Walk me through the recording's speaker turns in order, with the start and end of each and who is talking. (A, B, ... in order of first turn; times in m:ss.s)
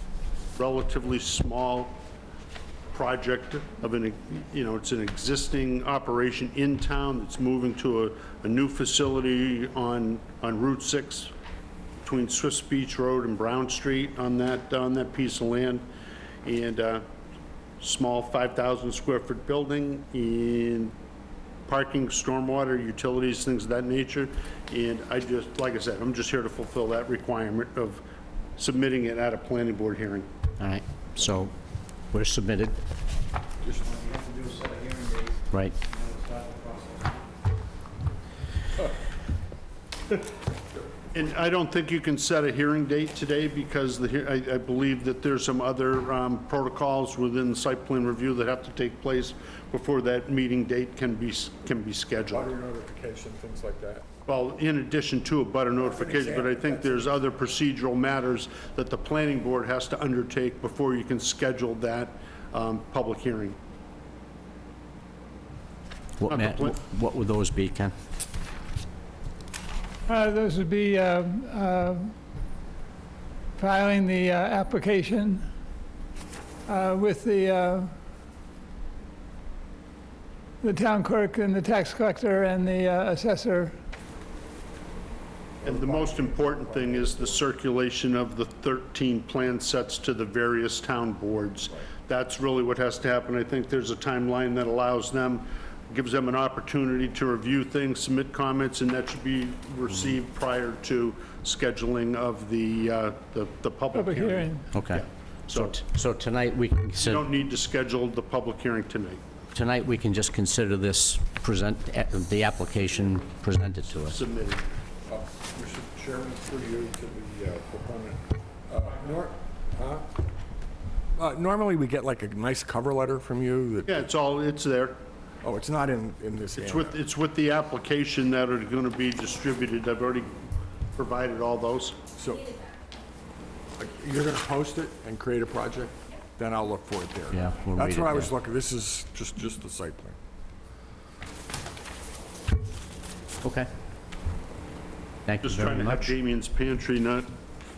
0:00.6-0:02.0 A
0:02.9-0:11.3 A
0:12.0-0:15.9 A
0:16.4-0:17.0 A
0:17.8-0:20.9 A
0:21.7-0:28.0 A
0:28.6-0:30.3 A
0:30.6-0:31.5 B
0:32.1-0:32.8 B
0:34.0-0:35.3 C
0:35.5-0:35.8 B
0:36.0-0:37.1 C
0:41.1-0:52.5 A
0:52.3-0:54.0 D
0:54.2-1:03.6 A
0:55.8-0:57.2 D
1:06.2-1:07.9 B
1:06.3-1:06.8 A
1:10.1-1:12.1 E
1:13.6-1:15.5 E
1:16.6-1:17.9 E
1:20.6-1:23.8 E
1:25.6-1:27.5 D
1:25.6-1:45.8 A
1:43.9-1:44.7 E
1:44.7-1:47.2 B
1:47.0-1:49.2 A
1:49.5-1:54.2 B
1:53.9-1:54.6 A
1:55.1-2:00.0 D
2:01.2-2:04.1 D
2:03.9-2:05.0 A
2:05.4-2:07.0 D
2:06.6-2:10.4 A
2:10.9-2:12.0 A
2:12.1-2:12.6 D
2:13.8-2:20.2 D
2:17.3-2:18.3 B
2:23.4-2:23.7 B
2:25.2-2:26.1 B
2:25.4-2:27.3 A